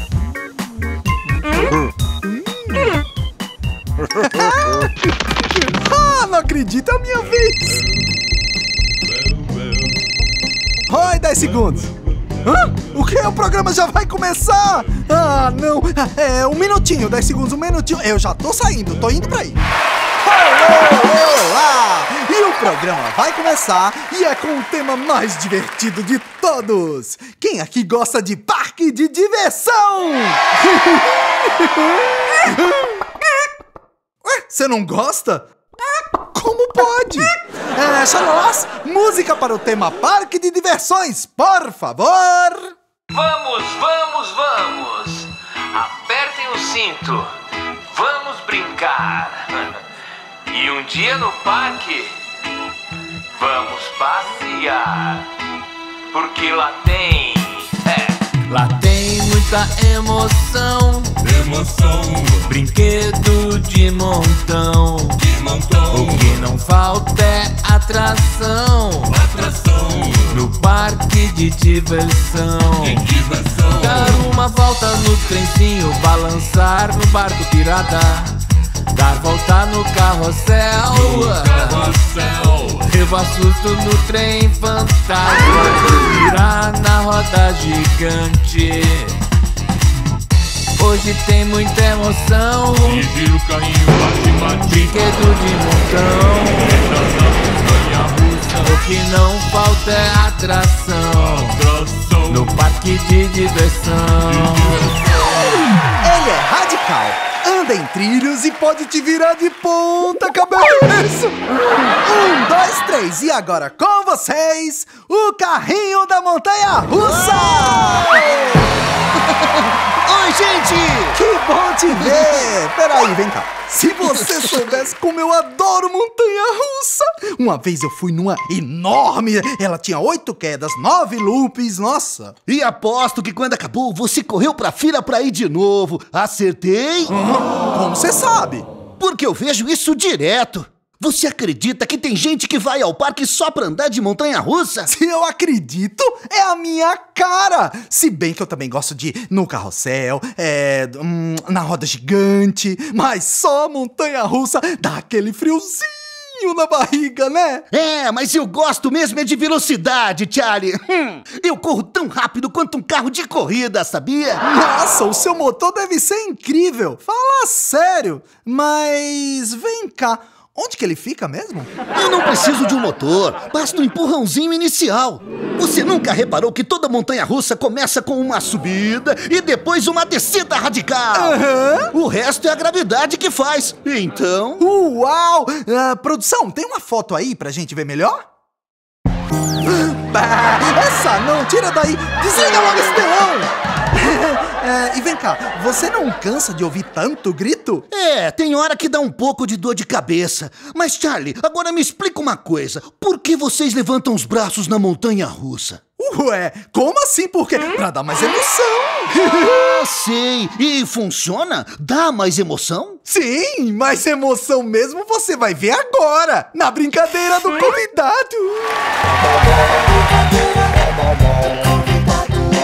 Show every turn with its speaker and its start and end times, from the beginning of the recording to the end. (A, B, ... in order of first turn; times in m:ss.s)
0:02.2-0:02.9 A
0:04.0-0:07.8 A
0:10.9-0:11.9 A
0:12.4-0:19.6 A
0:20.2-0:33.4 A
0:34.2-0:35.5 A
0:36.2-0:42.7 A
0:43.1-0:47.3 B
0:47.8-0:49.8 B
0:50.5-0:52.2 B
0:53.3-0:55.3 B
0:56.1-1:01.2 B
1:01.2-1:02.5 C
1:02.4-1:05.2 B
1:05.2-1:06.4 C
1:05.9-1:09.5 B
1:09.1-1:10.3 C
1:10.2-1:13.1 B
1:12.8-1:14.2 C
1:13.7-1:18.4 B
1:18.9-1:21.9 B
1:20.9-1:22.9 C
1:22.6-1:29.2 B
1:30.7-1:33.1 B
1:32.8-1:34.9 C
1:34.6-1:41.6 B
1:36.8-1:37.3 C
1:41.3-1:42.5 C
1:42.2-1:44.8 B
1:44.3-1:45.5 C
1:45.7-1:58.6 A
1:57.0-1:58.5 D
1:59.1-2:01.2 D
2:01.1-2:12.4 A
2:02.0-2:02.5 D
2:04.1-2:04.7 D
2:12.5-2:17.1 D
2:17.1-2:18.6 A
2:19.0-2:24.9 D
2:24.9-2:37.6 A
2:37.7-2:44.4 D
2:44.4-2:51.8 A
2:51.9-3:04.7 D
3:01.1-3:01.9 A
3:04.6-3:08.2 A
3:09.6-3:17.9 A
3:17.9-3:25.8 D
3:26.0-3:29.5 A
3:29.3-3:33.0 D
3:33.1-3:38.8 A